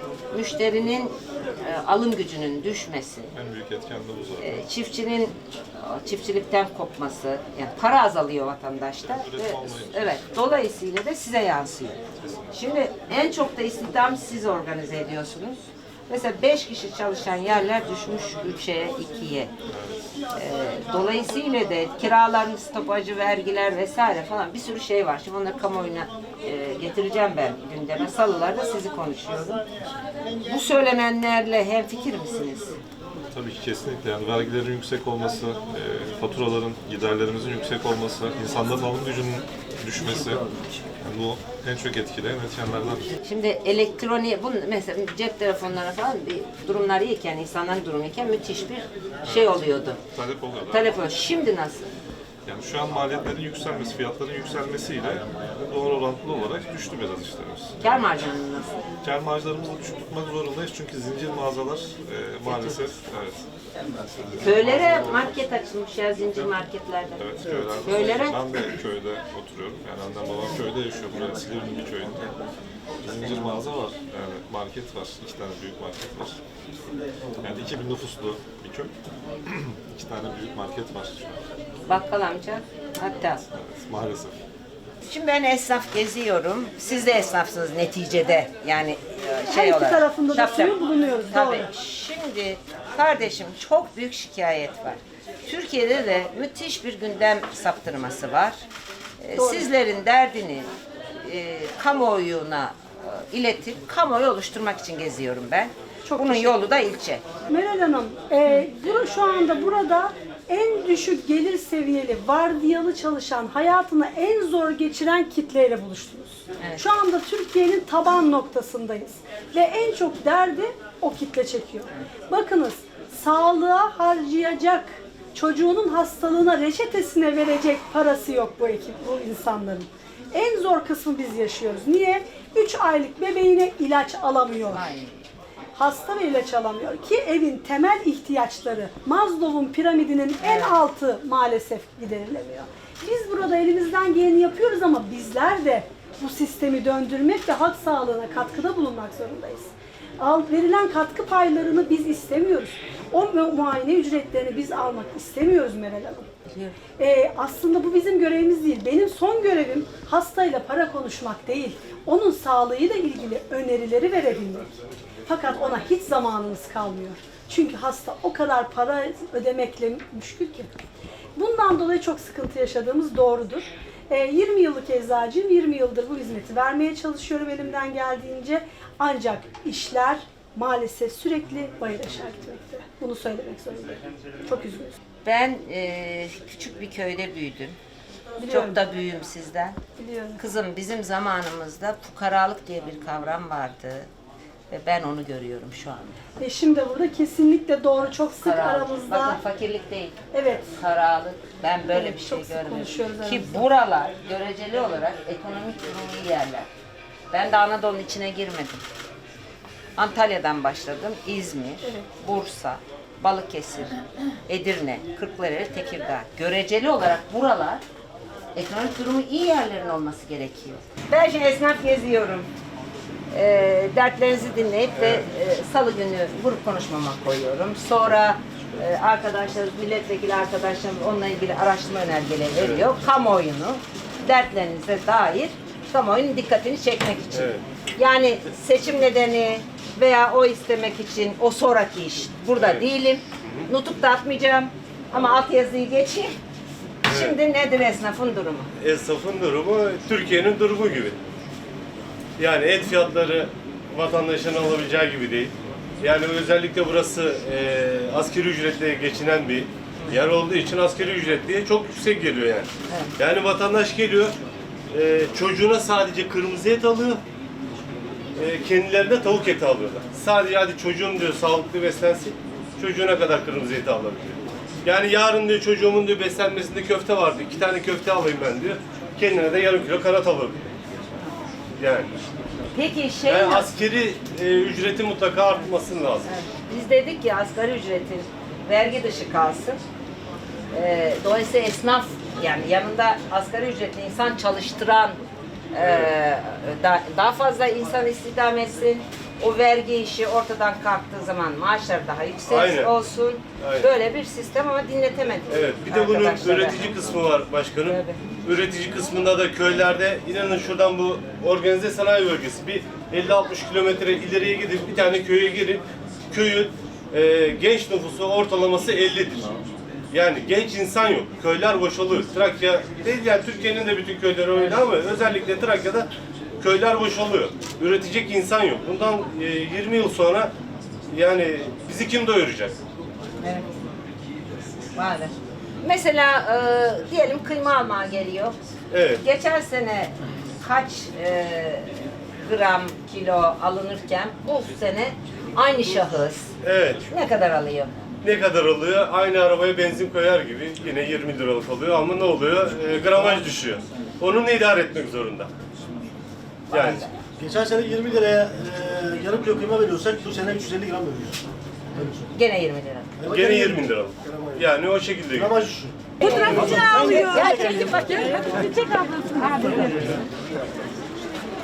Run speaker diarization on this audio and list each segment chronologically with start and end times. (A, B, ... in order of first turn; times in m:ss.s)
0:00.3-0:03.3 A
0:03.3-0:04.6 B
0:04.4-0:12.0 A
0:09.2-0:10.2 B
0:12.1-0:12.5 B
0:12.5-0:19.5 A
0:19.7-0:20.0 B
0:20.3-0:29.6 A
0:30.4-0:32.8 A
0:33.3-0:40.5 B
0:41.0-0:43.1 B
0:43.2-0:50.0 A
0:49.2-0:49.5 B
0:50.1-0:50.9 B
0:50.7-0:51.9 A
0:52.4-0:57.8 B
0:57.8-0:58.8 A
0:59.0-1:03.5 B
1:02.5-1:02.8 A
1:04.2-1:05.3 B
1:04.4-1:08.4 A
1:07.2-1:12.3 B
1:13.0-1:16.4 B
1:17.4-1:18.9 B
1:19.5-1:21.4 B
1:21.9-1:23.4 A
1:23.5-1:24.4 B
1:25.0-1:38.6 A
1:29.5-1:31.7 C
1:39.2-1:40.7 A
1:39.4-1:39.7 C
1:41.2-1:47.2 A
1:46.1-1:46.6 C
1:47.5-2:14.9 C
1:56.6-1:56.9 A
2:14.7-2:15.2 A
2:15.8-2:36.3 C
2:20.4-2:20.9 A
2:36.5-2:36.8 A
2:37.0-2:44.7 C
2:45.3-2:50.7 C
2:51.4-3:05.0 C
3:05.2-3:07.8 A
3:08.4-3:08.8 C
3:08.5-3:09.8 A
3:10.0-3:10.4 C
3:10.4-3:14.1 A
3:14.7-3:16.2 A
3:16.4-3:19.4 C
3:18.4-3:26.7 A
3:20.3-3:20.8 C
3:21.9-3:23.6 C
3:27.3-3:28.8 A
3:30.0-3:37.8 A
3:38.6-3:42.5 A
3:43.3-4:06.4 A
3:45.0-3:45.3 D
3:52.6-3:52.9 D
3:57.3-3:57.6 D
4:02.6-4:02.8 D
4:03.4-4:03.7 D
4:07.0-4:08.7 A
4:07.1-4:07.4 D
4:08.8-4:11.2 D
4:12.4-4:24.4 D
4:22.9-4:23.1 A
4:24.9-4:27.2 D
4:28.4-4:40.6 D
4:41.8-4:42.2 D
4:42.7-4:43.7 A
4:43.2-4:46.3 D
4:46.2-4:49.8 A
4:50.7-4:55.2 A
4:55.7-5:07.1 A
4:55.8-4:56.1 D
5:02.5-5:02.9 D
5:03.6-5:03.9 D
5:05.5-5:19.5 D
5:07.8-5:08.2 A
5:20.1-5:30.5 D
5:31.1-5:32.8 D
5:33.4-5:33.7 A
5:35.0-5:38.6 A
5:38.9-5:39.2 D
5:39.2-5:46.5 A
5:46.6-5:47.0 D
5:47.1-5:47.9 A
5:48.2-5:55.5 D
5:56.7-5:57.1 D
5:56.7-6:01.4 E
6:02.0-6:03.3 A
6:03.2-6:04.6 E
6:03.3-6:05.7 D
6:05.3-6:05.9 E
6:06.2-6:10.2 A
6:06.3-6:06.8 D
6:06.5-6:07.9 E